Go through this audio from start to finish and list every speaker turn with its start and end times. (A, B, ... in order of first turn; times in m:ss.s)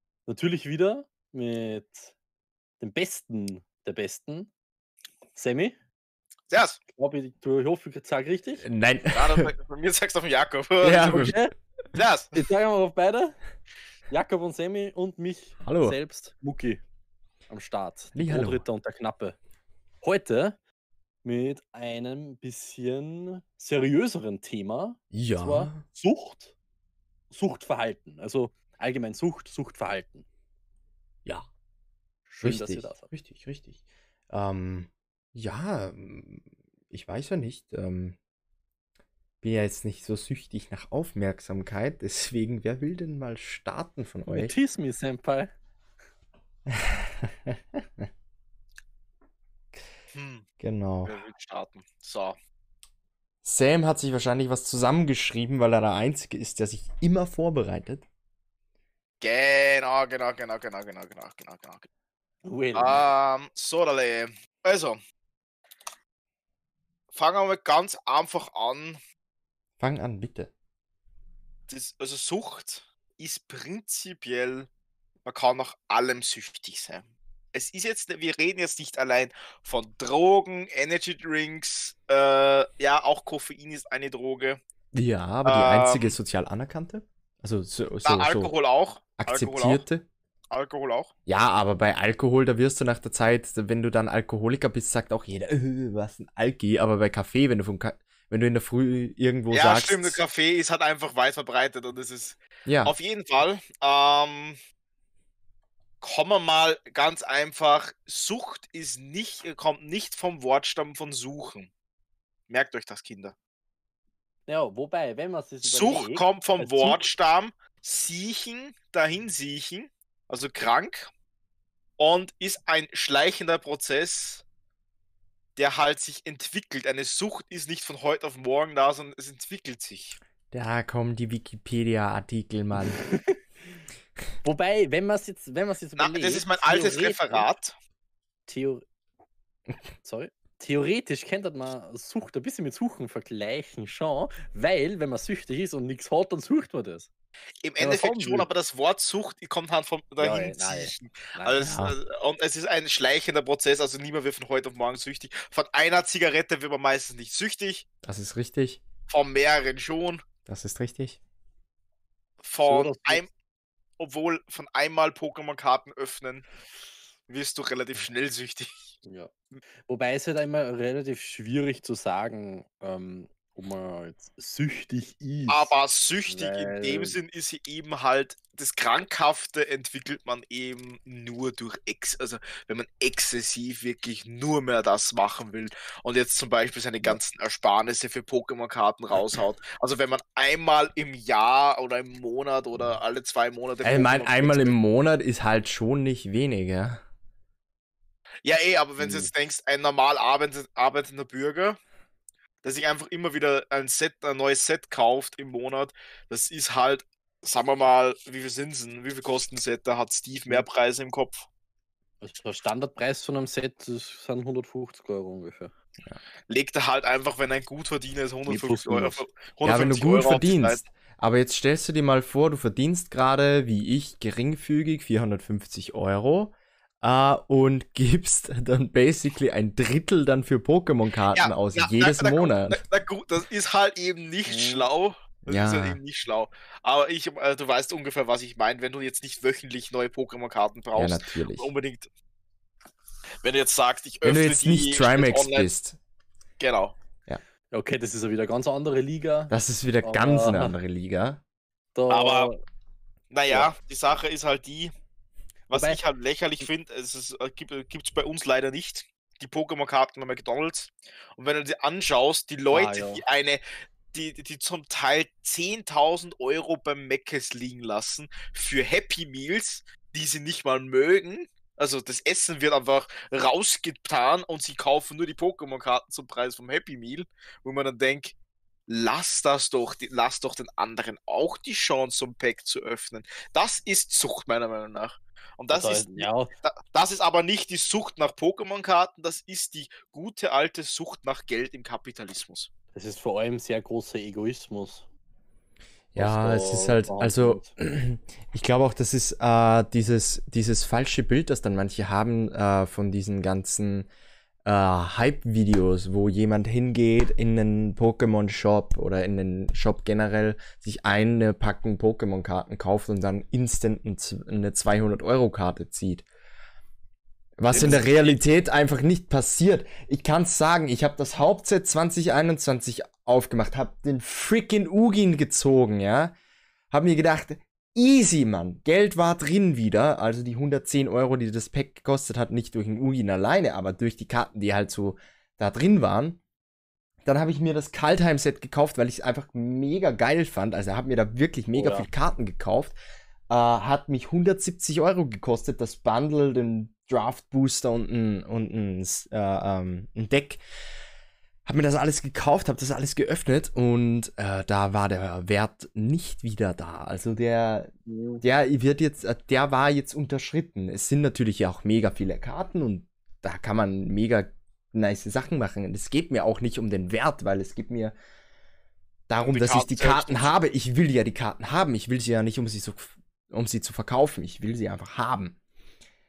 0:00.3-0:02.2 A
0:02.8-0:04.5 A
0:05.4-0:05.8 A
0:06.5-0:06.8 B
0:06.9-0:08.7 A
0:08.6-0:09.5 C
0:09.1-0:11.3 B
0:10.8-0:11.4 C
0:11.1-0:11.5 A
0:12.0-0:12.3 B
0:12.3-0:13.4 A
0:14.1-0:16.8 A
0:15.6-0:16.0 C
0:17.5-0:19.4 A
0:18.2-0:18.6 C
0:20.0-0:20.6 A
0:21.2-0:26.6 A
0:25.1-0:25.8 C
0:27.3-0:30.3 A
0:32.3-0:33.1 A
0:32.4-0:38.2 C
0:39.4-0:44.5 C
0:44.3-0:45.5 A
0:46.7-0:48.1 C
0:50.1-0:50.5 B
0:50.6-0:51.2 C
0:51.0-0:52.4 B
0:53.4-0:58.1 C
0:59.2-1:01.9 B
1:02.4-1:03.0 A
1:02.8-1:05.0 B
1:07.1-1:09.0 B
1:09.8-1:10.5 C
1:11.7-1:14.7 B
1:15.2-1:24.6 B
1:24.9-1:28.5 C
1:25.4-1:26.2 B
1:28.0-1:29.8 B
1:29.2-1:30.1 C
1:30.5-1:31.1 B
1:31.3-1:40.2 C
1:39.5-1:44.6 B
1:42.7-1:43.0 C
1:46.0-1:51.7 B
1:52.5-1:53.4 B
1:54.5-1:57.0 A
1:55.6-2:01.1 B
2:02.0-2:04.4 B
2:05.6-2:10.2 B
2:10.5-2:13.0 C
2:13.0-2:13.4 A
2:14.4-2:17.5 A
2:16.0-2:17.8 B
2:18.5-2:18.8 A
2:20.0-2:27.1 A
2:27.6-2:37.9 B
2:27.8-2:28.5 A
2:30.2-2:31.6 A
2:31.6-2:32.0 C
2:38.0-2:38.8 C
2:39.1-2:40.2 B
2:40.5-2:41.2 C
2:42.4-2:43.3 B
2:42.6-2:43.2 A
2:44.0-2:46.5 B
2:47.3-2:49.0 B
2:49.0-2:49.3 A
2:49.9-2:55.7 A
2:55.5-3:14.8 B
2:56.3-2:57.2 A
3:13.8-3:17.0 C
3:18.4-3:21.8 B
3:19.0-3:19.3 C
3:22.6-3:31.5 B
3:32.2-3:35.7 A
3:36.5-3:40.9 B
3:38.5-3:39.2 A
3:39.6-3:52.8 C
3:51.4-4:02.1 B
3:54.5-3:54.9 A
3:55.5-3:56.0 C
4:01.0-4:01.7 C
4:03.4-4:05.7 B
4:04.2-4:06.0 C
4:06.6-4:07.0 B
4:07.7-4:10.8 A
4:09.5-4:11.4 C
4:12.0-4:12.6 A
4:12.1-4:12.5 B
4:13.3-4:14.9 B
4:15.7-4:16.0 A
4:15.7-4:23.6 B
4:22.7-4:23.2 A
4:24.1-4:38.4 B
4:38.9-4:52.7 B
4:45.7-4:46.5 A
4:52.9-4:55.1 A
4:56.1-5:04.1 C
4:56.2-4:57.7 A
5:04.6-5:16.3 C
5:17.6-5:26.3 C
5:17.7-5:18.4 B
5:26.9-5:36.4 C
5:37.2-5:43.0 C
5:41.7-5:42.1 A
5:43.5-5:50.6 C
5:51.7-6:08.2 C
5:58.1-5:58.4 A
6:09.3-6:15.6 C
6:09.4-6:10.6 B